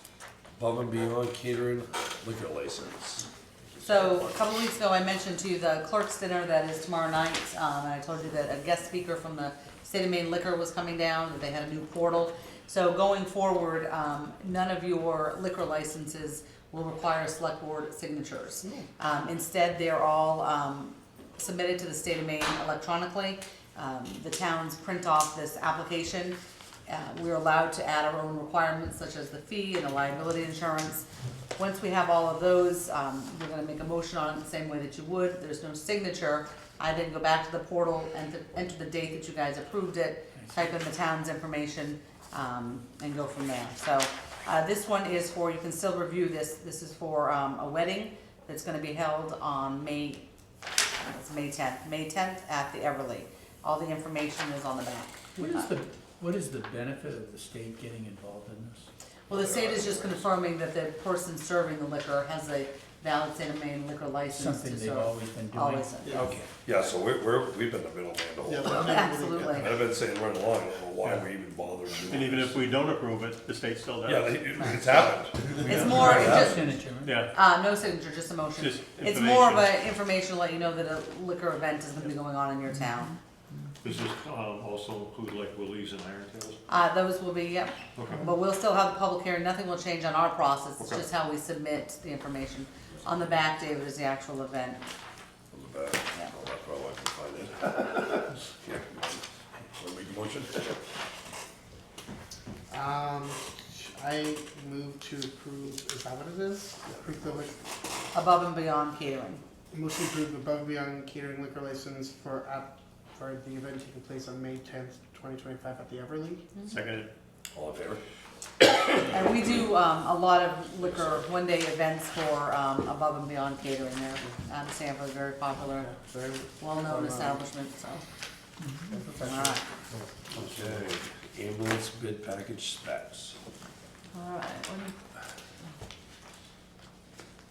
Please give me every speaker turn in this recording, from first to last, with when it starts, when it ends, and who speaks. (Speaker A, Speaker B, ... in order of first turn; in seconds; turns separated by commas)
Speaker A: 0.6-4.3, Speaker B: 3.8-50.2, Speaker B: 51.0-55.7, Speaker C: 55.4-58.9, Speaker B: 59.3-66.4, Speaker A: 59.3-60.3, Speaker C: 64.3-66.5, Speaker D: 66.0-66.3, Speaker A: 66.6-72.7, Speaker D: 68.5-69.7, Speaker B: 68.6-69.7, Speaker E: 72.0-74.8, Speaker A: 74.0-76.6, Speaker E: 75.6-76.5, Speaker C: 75.6-77.3, Speaker B: 75.6-76.7, Speaker E: 77.0-77.3, Speaker B: 77.3-83.1, Speaker E: 78.6-79.8, Speaker C: 82.7-83.7, Speaker F: 83.8-86.6, Speaker B: 86.7-94.9, Speaker F: 87.9-88.3, Speaker A: 95.5-100.8, Speaker D: 102.7-107.5, Speaker A: 106.8-107.5, Speaker B: 108.1-109.4, Speaker D: 109.7-116.5, Speaker E: 116.6-117.1, Speaker A: 117.5-118.0, Speaker B: 119.1-125.9, Speaker D: 125.8-127.4, Speaker B: 126.6-128.0, Speaker C: 128.6-129.3, Speaker D: 128.9-129.6, Speaker B: 129.2-129.7, Speaker F: 129.9-130.3, Speaker A: 130.3-133.4, Speaker B: 134.1-135.0